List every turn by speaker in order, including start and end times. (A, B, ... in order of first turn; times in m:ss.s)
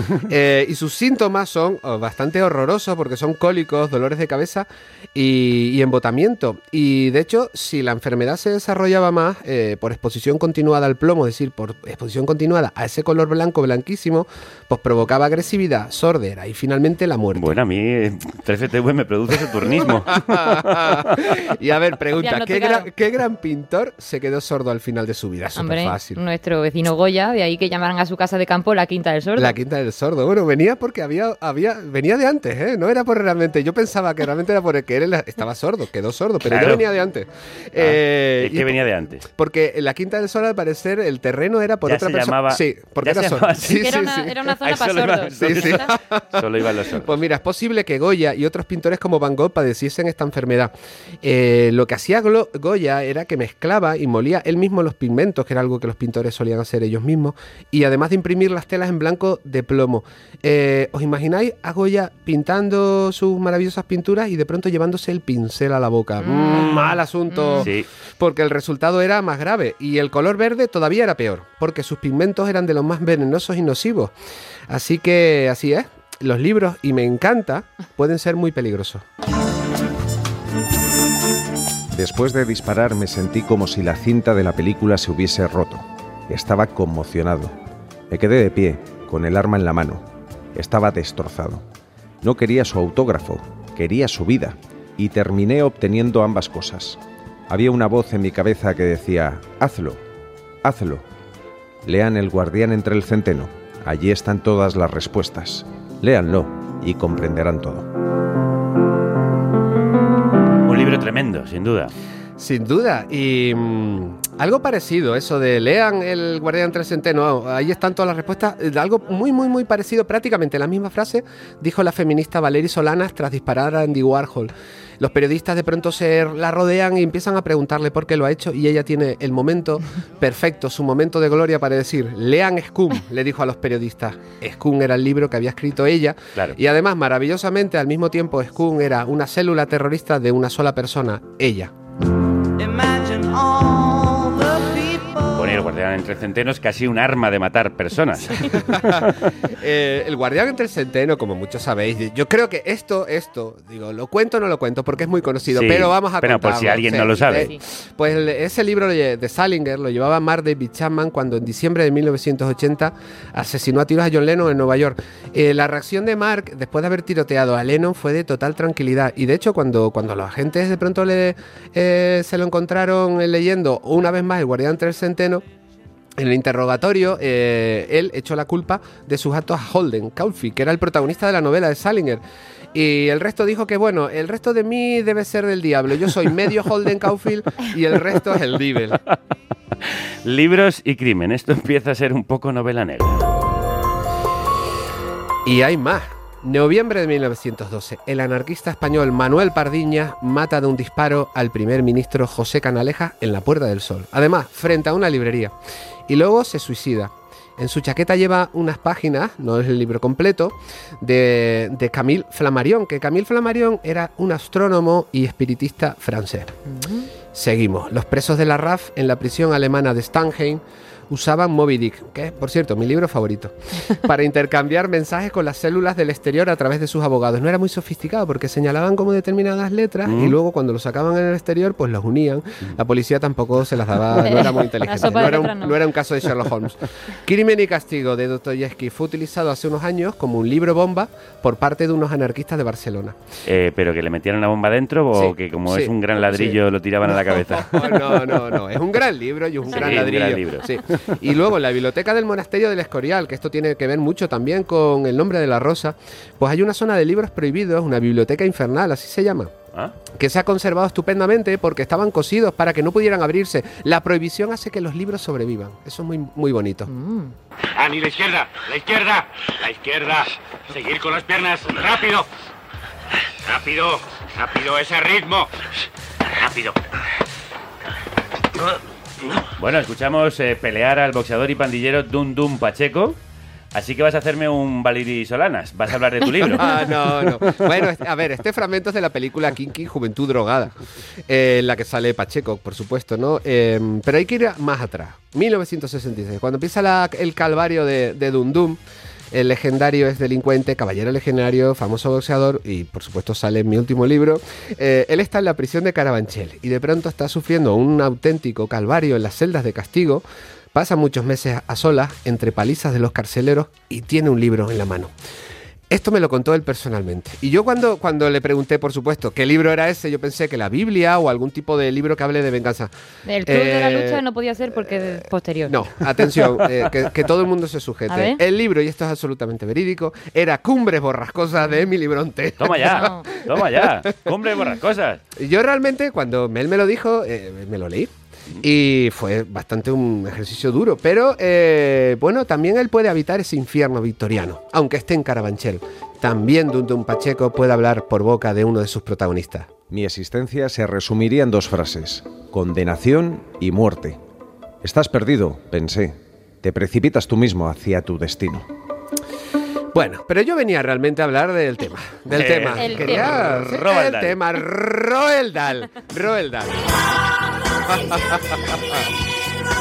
0:00.3-0:17.5 A
0:17.4-0:21.0 B
0:20.0-0:26.2 A
0:22.2-0:22.9 C
0:25.6-0:29.6 C
0:29.4-0:38.8 A
0:36.4-0:36.8 B
0:37.8-0:39.2 B
0:39.4-0:44.3 A
0:41.8-0:43.9 B
0:43.8-0:45.8 C
0:44.6-0:47.2 B
0:45.4-0:46.2 A
0:47.0-1:14.1 A
1:06.2-1:07.7 C
1:07.6-1:07.9 B
1:14.7-1:19.0 A
1:22.0-1:27.6 D
1:28.1-1:30.0 D
1:30.6-1:31.6 D
1:32.2-1:40.0 D
1:40.6-1:41.0 D
1:41.8-1:47.9 D
1:50.7-1:51.9 B
1:52.4-2:21.7 A
2:25.3-2:29.1 B
2:28.5-2:29.1 A
2:29.6-2:55.4 A
2:35.5-2:37.5 B
2:37.2-2:37.6 C
2:56.2-3:02.2 A
3:02.7-3:09.0 A
3:10.2-3:13.3 B
3:15.4-3:25.5 A
3:26.1-3:36.6 A
3:36.7-3:37.1 C
3:37.3-4:03.2 A
3:50.0-3:50.4 B
3:54.2-3:55.8 C
4:03.4-4:08.4 B
4:05.1-4:19.5 A
4:09.7-4:10.8 B
4:20.1-4:26.9 A
4:26.9-4:27.3 C
4:27.8-4:32.3 E
4:33.5-4:35.5 E
4:36.4-4:36.8 E
4:39.6-4:43.2 B
4:43.7-4:47.3 B
4:46.5-4:50.7 A
4:51.3-4:58.8 A
4:59.3-5:15.1 A
5:15.9-5:22.9 A
5:23.3-5:25.8 C
5:23.4-5:34.1 A
5:28.1-5:28.4 C
5:32.6-5:35.2 B
5:32.8-5:33.3 C
5:35.4-5:49.7 A
5:49.9-5:54.2 D
5:54.8-5:58.6 D
5:59.9-6:06.9 A
6:02.3-6:04.4 B
6:02.8-6:03.4 C
6:07.9-6:09.0 A